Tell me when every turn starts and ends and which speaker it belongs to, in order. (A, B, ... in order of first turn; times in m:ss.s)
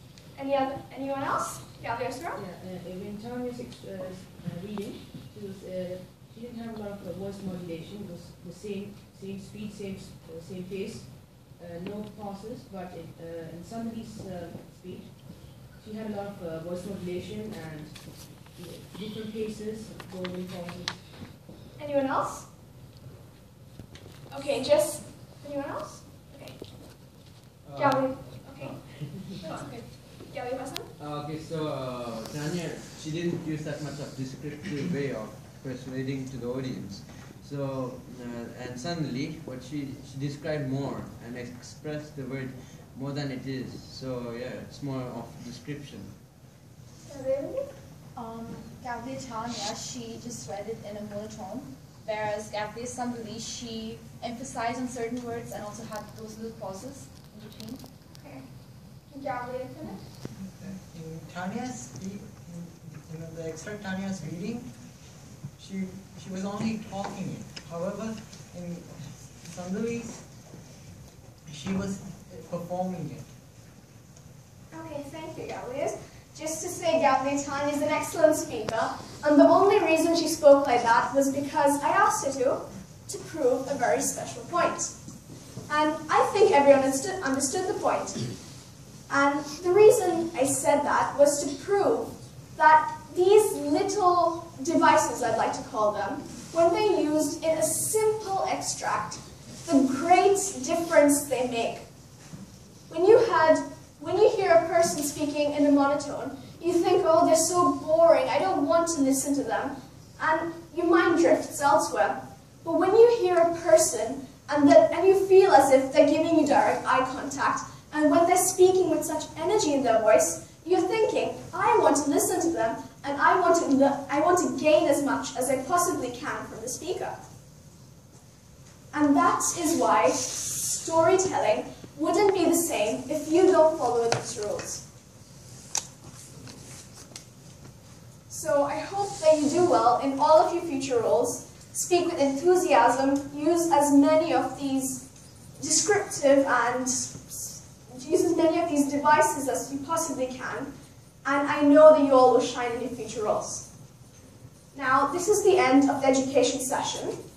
0:00.4-0:02.4 A
0:02.4-0:21.0 B
0:21.8-0:22.4 A
0:24.3-0:26.6 A
0:27.6-0:29.0 C
0:27.8-0:29.8 A
0:30.3-0:30.9 A
0:31.0-0:46.1 C
0:47.0-0:47.6 A
0:48.1-0:57.8 D
0:58.1-0:58.4 A
0:59.1-1:00.0 A
1:00.4-1:04.7 E
1:05.6-1:10.2 E
1:11.5-1:13.2 E
1:14.7-1:24.9 A
1:25.7-1:28.2 A
1:29.1-1:41.8 A
1:42.9-2:07.1 A
2:08.9-2:14.8 A
2:18.3-2:25.0 A
2:25.6-2:30.7 A
2:31.2-2:33.6 A
2:34.7-2:37.1 A